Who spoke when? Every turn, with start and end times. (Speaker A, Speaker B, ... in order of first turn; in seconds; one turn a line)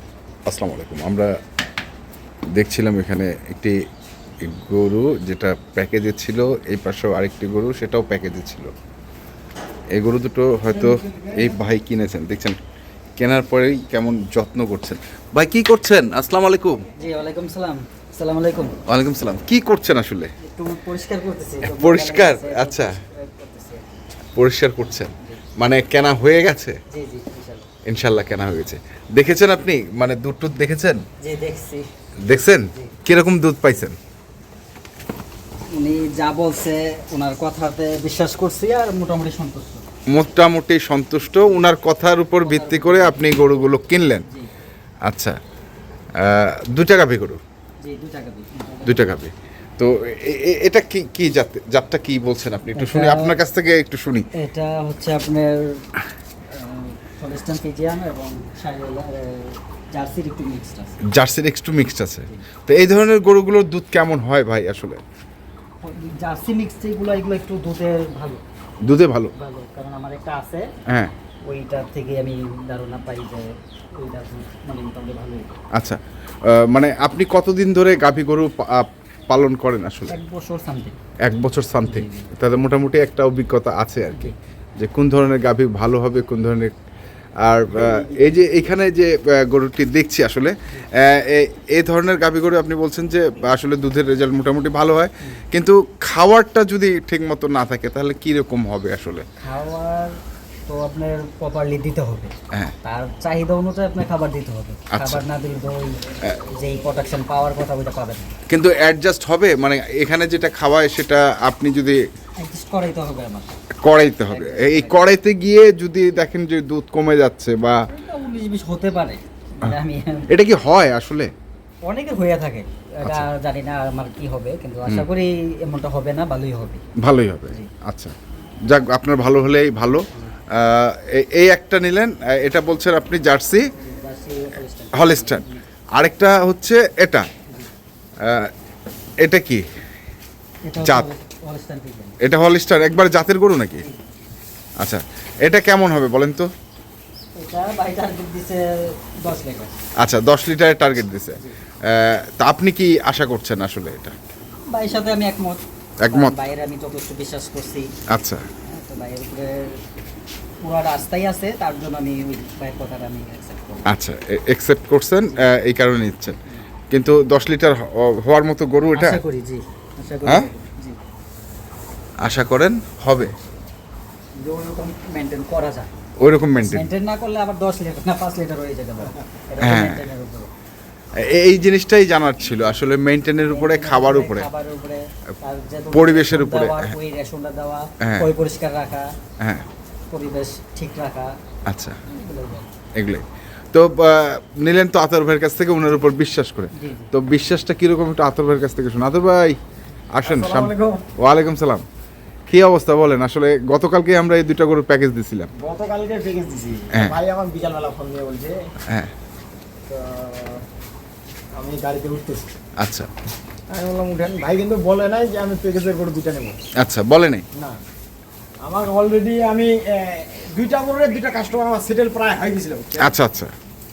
Speaker A: 0.5-1.3
Speaker A: 2.5-3.8
Speaker A: 4.4-8.7
Speaker A: 9.9-12.6
Speaker B: 10.8-11.4
Speaker A: 13.2-16.8
Speaker C: 17.0-18.8
Speaker A: 18.9-20.3
Speaker C: 20.4-23.8
Speaker A: 21.6-23.0
Speaker A: 24.3-26.8
Speaker C: 24.9-25.4
Speaker C: 26.9-27.7
Speaker A: 27.8-31.0
Speaker C: 31.2-31.9
Speaker A: 32.2-34.0
Speaker C: 35.7-39.8
Speaker A: 40.1-44.2
Speaker C: 42.4-43.2
Speaker A: 45.0-45.4
Speaker A: 46.2-47.4
Speaker C: 47.8-49.1
Speaker A: 48.8-54.3
Speaker C: 52.7-53.4
Speaker C: 54.3-55.8
Speaker C: 56.5-61.0
Speaker A: 61.1-65.0
Speaker C: 65.8-68.4
Speaker A: 68.8-69.3
Speaker C: 69.3-70.7
Speaker A: 70.9-71.1
Speaker C: 71.5-75.5
Speaker A: 75.7-80.2
Speaker C: 80.1-81.0
Speaker A: 81.2-86.7
Speaker C: 81.8-82.3
Speaker A: 87.4-99.2
Speaker B: 87.7-88.4
Speaker C: 99.4-102.3
Speaker C: 102.8-108.3
Speaker A: 104.9-105.2
Speaker A: 108.5-112.0
Speaker C: 112.4-113.6
Speaker A: 113.8-117.8
Speaker C: 114.3-115.1
Speaker C: 117.9-120.3
Speaker A: 120.3-121.3
Speaker C: 121.8-126.8
Speaker A: 127.0-128.1
Speaker A: 128.7-133.7
Speaker C: 133.8-135.6
Speaker A: 134.9-135.4
Speaker A: 135.9-137.3
Speaker A: 138.2-138.5
Speaker A: 139.2-139.6
Speaker C: 140.6-142.2
Speaker A: 140.8-141.1
Speaker A: 142.2-143.8
Speaker A: 144.8-146.5
Speaker C: 147.3-149.8
Speaker A: 150.0-154.2
Speaker C: 154.7-157.9
Speaker A: 156.0-156.3
Speaker A: 158.1-158.4
Speaker C: 158.7-159.8
Speaker C: 160.6-163.8
Speaker A: 163.9-166.3
Speaker A: 166.9-169.2
Speaker C: 168.9-171.0
Speaker A: 172.2-173.3
Speaker C: 174.4-175.9
Speaker A: 176.2-176.9
Speaker C: 176.6-180.5
Speaker A: 179.6-180.0
Speaker A: 181.2-184.5
Speaker C: 183.5-189.1
Speaker A: 185.9-186.9
Speaker A: 188.0-188.3
Speaker A: 189.4-189.7
Speaker C: 190.1-191.3
Speaker A: 191.7-192.0
Speaker C: 192.1-192.7
Speaker A: 192.9-199.6
Speaker C: 196.7-197.1
Speaker A: 200.1-201.8
Speaker B: 200.2-201.0
Speaker A: 202.5-205.5
Speaker B: 205.6-208.6
Speaker B: 209.9-210.6
Speaker B: 211.6-212.5
Speaker A: 212.8-213.1
Speaker B: 213.7-216.6
Speaker A: 216.8-217.4
Speaker B: 218.6-223.1
Speaker A: 223.0-223.5